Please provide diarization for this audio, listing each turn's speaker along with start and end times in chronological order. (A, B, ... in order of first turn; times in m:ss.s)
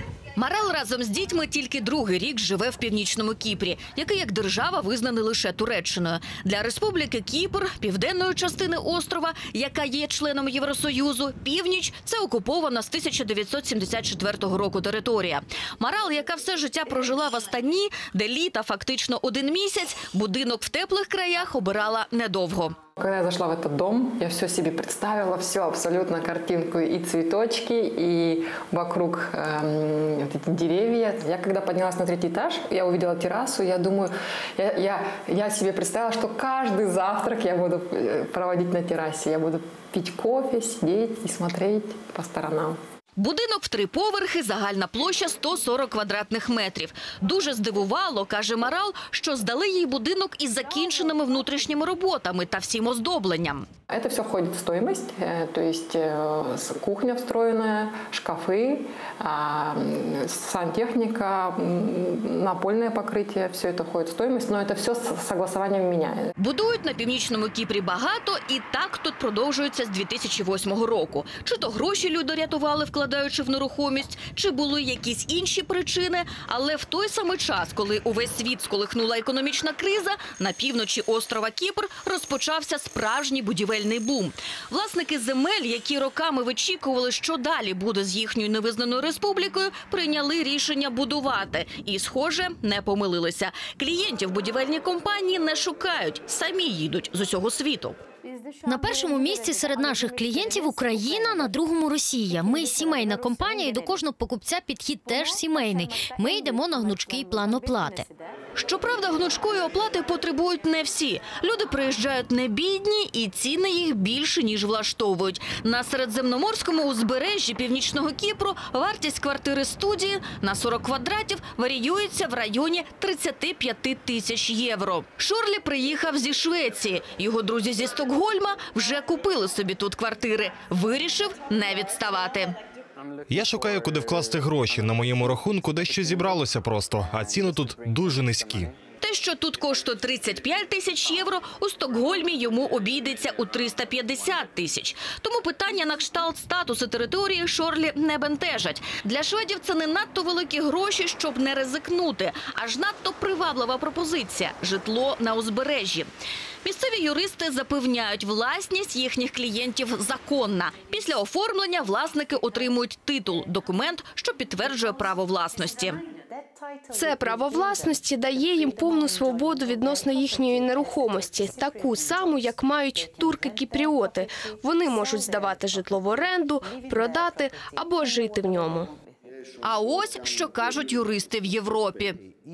0:00.4-0:22.8 A
0:23.0-0:42.8 B
0:43.2-0:53.6 A
0:53.9-1:06.3 B
1:06.4-1:38.0 A
1:38.7-1:48.1 C
1:48.6-2:12.5 A
2:13.3-2:18.7 D
2:19.0-2:36.1 A
2:36.6-2:46.0 A
2:46.9-2:58.9 E
2:59.6-3:02.2 A